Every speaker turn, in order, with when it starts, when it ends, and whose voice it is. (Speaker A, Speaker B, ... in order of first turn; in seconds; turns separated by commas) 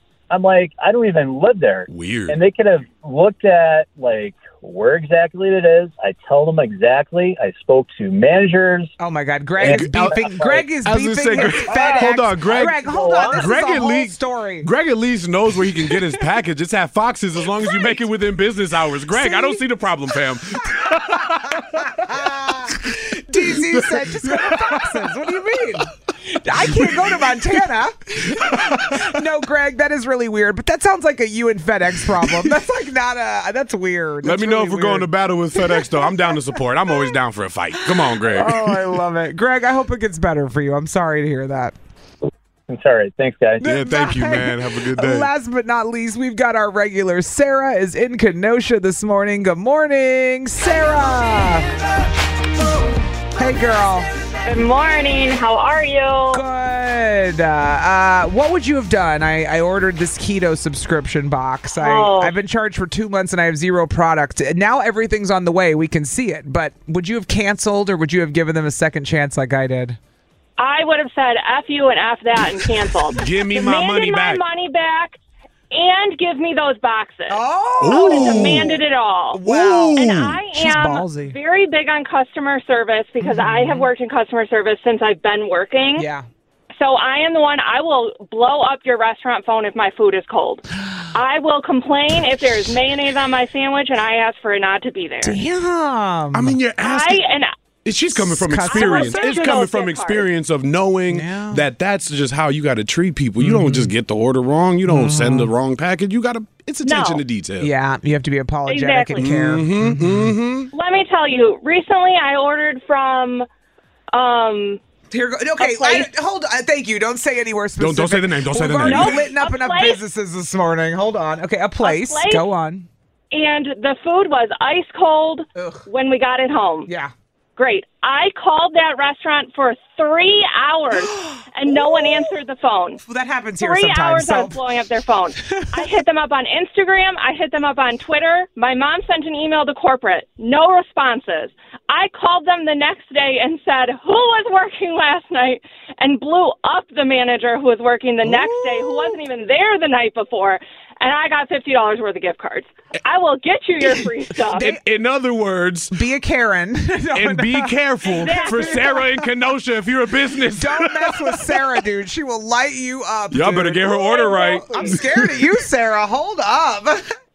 Speaker A: 0.3-8.9, Speaker B: 1.9-2.4, Speaker C: 9.0-14.7, Speaker A: 9.6-10.7, Speaker B: 9.6-10.2, Speaker B: 10.8-12.8, Speaker A: 11.7-13.5, Speaker B: 13.3-22.2, Speaker C: 19.1-19.6, Speaker C: 20.8-36.4, Speaker B: 23.5-24.9, Speaker B: 26.7-27.1, Speaker B: 28.4-29.0, Speaker B: 32.2-32.5, Speaker B: 34.2-38.9, Speaker C: 37.9-41.7, Speaker A: 42.7-43.6, Speaker C: 43.6-51.7, Speaker B: 43.6-45.3, Speaker C: 53.4-54.1, Speaker D: 54.5-56.4, Speaker C: 56.3-70.0, Speaker D: 61.8-62.3, Speaker D: 70.6-75.2, Speaker B: 73.2-74.4, Speaker D: 75.7-77.4, Speaker C: 77.3-78.8, Speaker B: 77.8-78.7, Speaker D: 77.9-79.4, Speaker C: 79.3-80.0, Speaker B: 79.5-80.4, Speaker D: 80.0-86.0, Speaker C: 80.5-81.4, Speaker C: 83.2-83.9, Speaker C: 86.0-86.2, Speaker D: 86.8-95.4, Speaker C: 95.2-96.6, Speaker B: 96.3-97.2, Speaker D: 96.8-97.5, Speaker B: 97.8-107.7, Speaker C: 98.1-99.4, Speaker D: 98.7-100.2, Speaker C: 101.1-101.7, Speaker C: 103.4-103.9, Speaker C: 104.8-105.5, Speaker D: 106.8-107.2, Speaker C: 107.6-110.3, Speaker D: 108.7-109.3, Speaker B: 109.2-110.7, Speaker D: 110.7-113.5, Speaker D: 114.1-114.8, Speaker C: 115.1-122.9, Speaker D: 115.6-116.1, Speaker B: 117.8-119.3, Speaker D: 118.8-120.0, Speaker D: 121.8-122.5, Speaker D: 123.3-126.9, Speaker C: 125.6-125.9, Speaker C: 126.9-127.1, Speaker D: 127.6-133.0, Speaker C: 130.9-132.3, Speaker C: 133.0-134.6, Speaker D: 133.6-154.7, Speaker C: 148.3-149.1, Speaker B: 154.6-155.9, Speaker C: 155.9-157.7, Speaker B: 157.2-161.6, Speaker D: 158.1-159.0, Speaker C: 158.2-159.3, Speaker C: 160.5-167.0, Speaker B: 163.3-165.5